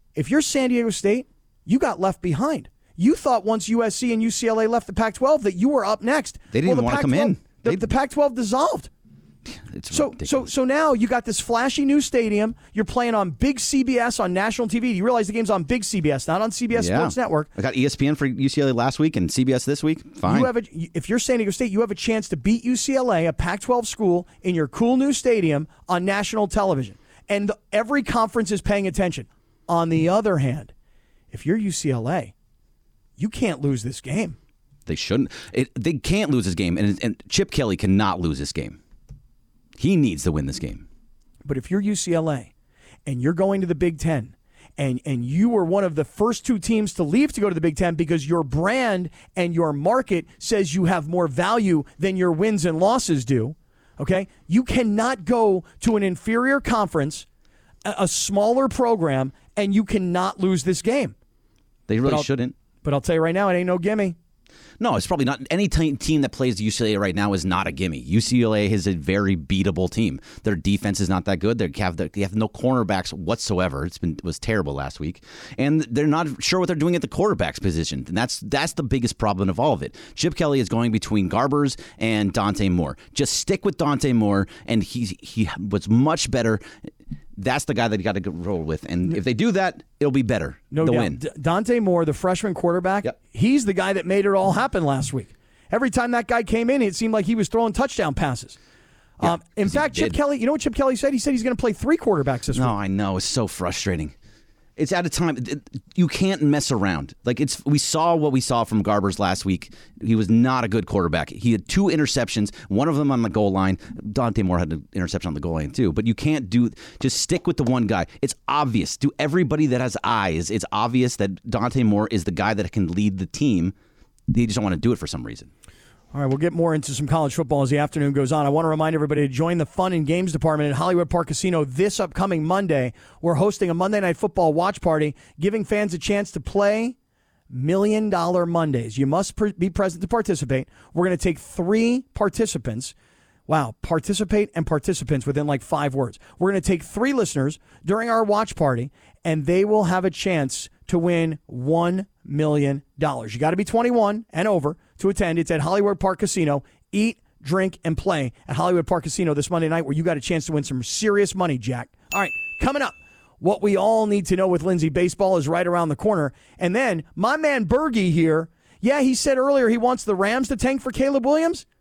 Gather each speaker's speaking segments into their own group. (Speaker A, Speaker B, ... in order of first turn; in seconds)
Speaker A: 0.1-8.9, 9.9-17.5, 20.2-30.7, 31.3-32.3, 33.2-34.4, 41.4-42.5, 43.0-57.2, 57.8-61.1, 62.8-64.2, 90.7-98.6, 99.2-102.7, 126.1-136.9, 137.5-142.9, 143.5-171.6
Speaker B: 6.5-7.8, 9.5-10.5, 16.7-20.5, 34.9-38.8, 39.8-40.8, 61.9-62.5, 64.8-86.6, 87.3-91.2, 99.2-100.2, 102.5-104.1, 104.8-123.7, 124.3-125.5